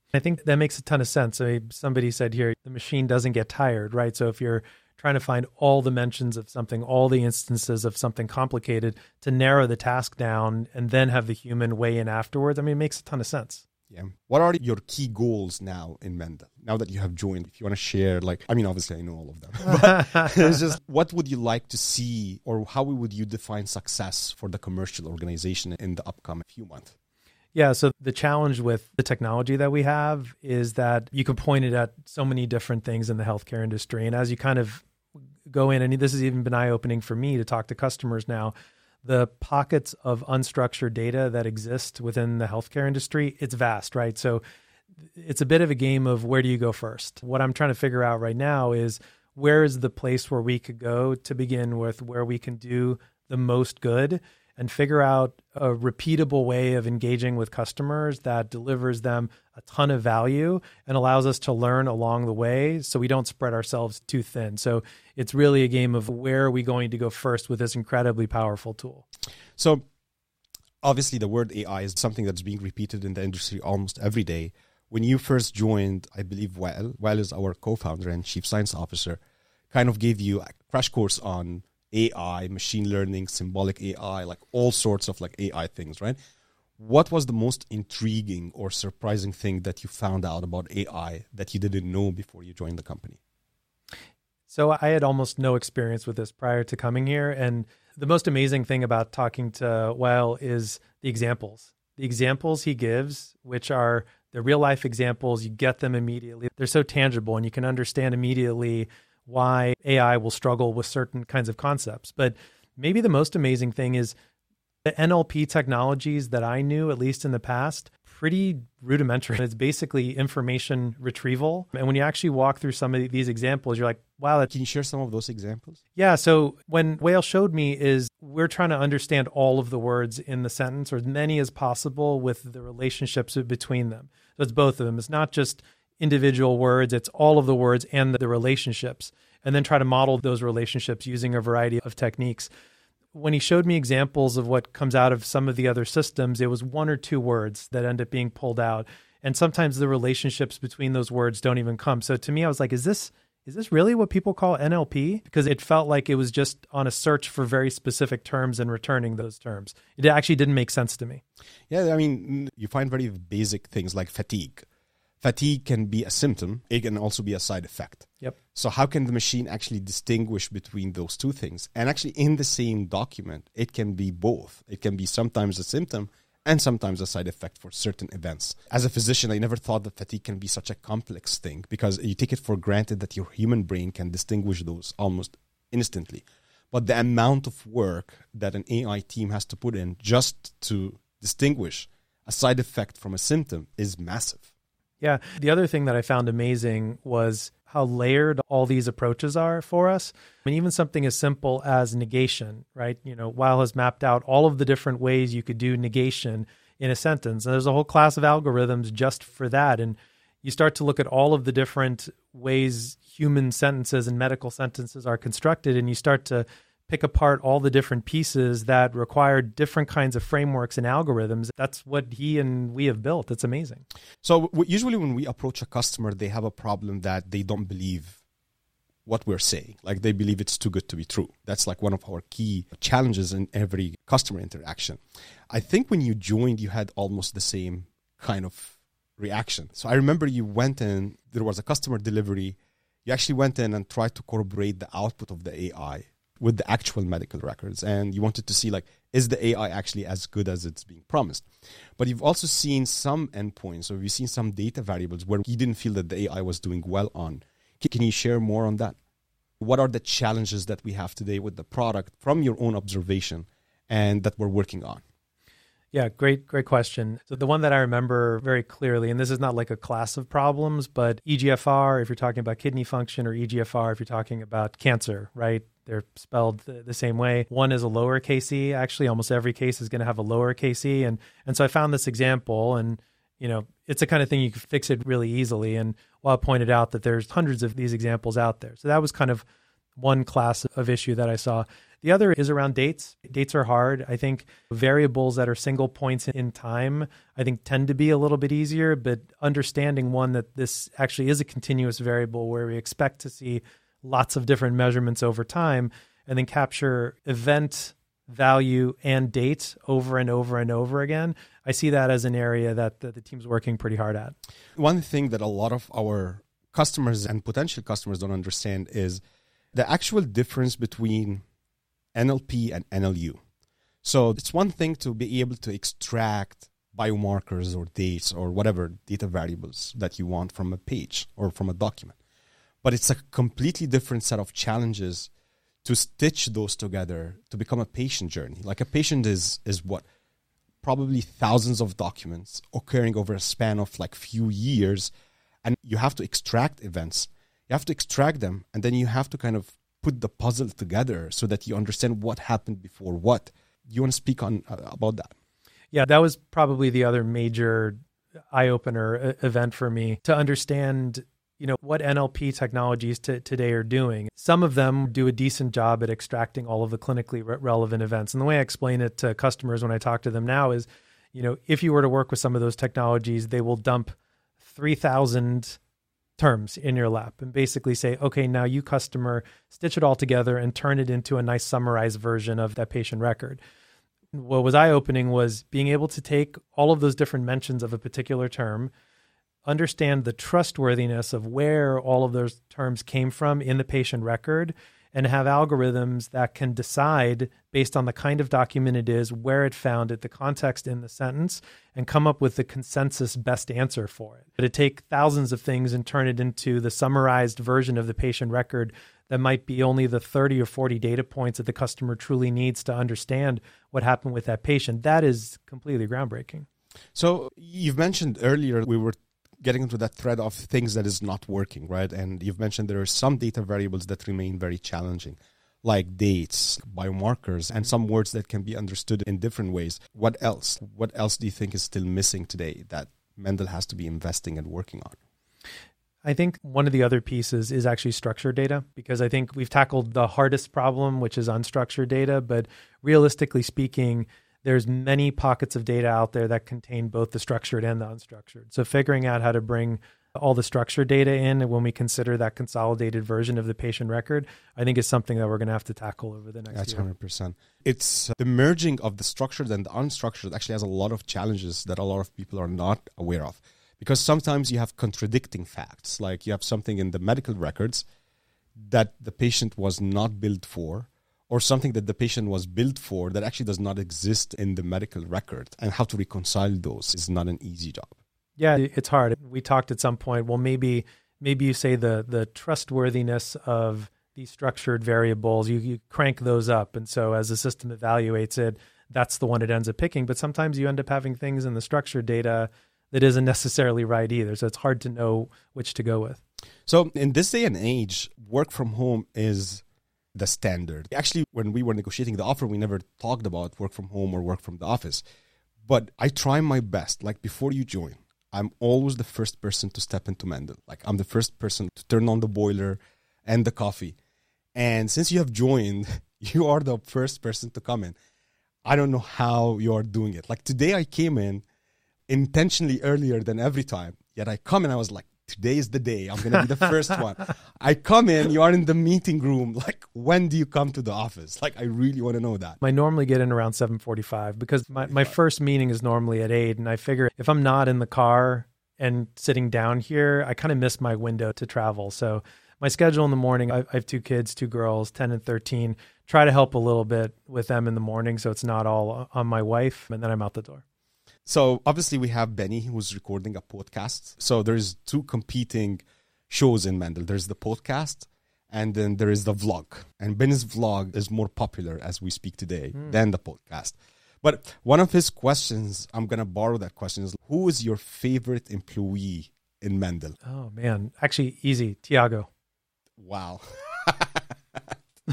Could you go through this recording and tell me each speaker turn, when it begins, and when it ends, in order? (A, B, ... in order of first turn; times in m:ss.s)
0:00.1-0:13.6 A
0:13.9-0:26.9 B
0:27.6-0:34.8 A
0:35.5-0:44.4 A
0:45.2-1:09.0 A
1:09.6-1:09.8 B
1:10.8-1:19.2 B
1:19.7-1:26.2 B
1:26.8-1:33.2 B
1:34.5-1:54.2 A
1:54.8-2:04.5 A
2:04.5-2:05.8 B
2:06.0-2:22.5 A
2:23.1-2:41.2 A
2:41.7-2:44.7 B
2:45.2-3:14.5 B
3:15.0-3:43.8 A
3:44.2-3:48.2 B
3:49.1-4:11.5 B
4:12.0-4:19.0 B
4:19.6-4:25.0 B
4:25.9-4:49.4 A
4:50.0-5:14.4 A
5:14.8-5:19.2 B
5:19.7-5:21.4 B
5:22.2-5:23.4 B
5:24.0-5:32.2 B
5:32.8-5:35.3 B
5:35.8-5:40.1 B
5:40.8-5:45.1 B
5:45.6-5:55.3 B
5:55.9-5:58.0 A
5:58.5-6:15.8 A
6:16.4-6:23.6 A
6:24.3-6:28.9 A
6:29.6-6:56.7 A
6:57.2-7:15.2 B
7:16.2-7:37.1 A
7:36.7-7:48.1 B
7:48.8-7:58.2 B
7:58.6-8:16.4 A
8:16.9-8:19.8 B
8:20.4-8:25.2 B
8:25.8-8:34.2 B
8:34.8-8:38.2 B
8:38.8-8:41.6 B
8:42.3-8:52.8 B
8:52.8-9:10.8 A
8:55.0-8:55.3 B
9:11.5-9:30.4 B
9:30.4-9:32.5 A
9:33.2-9:35.0 B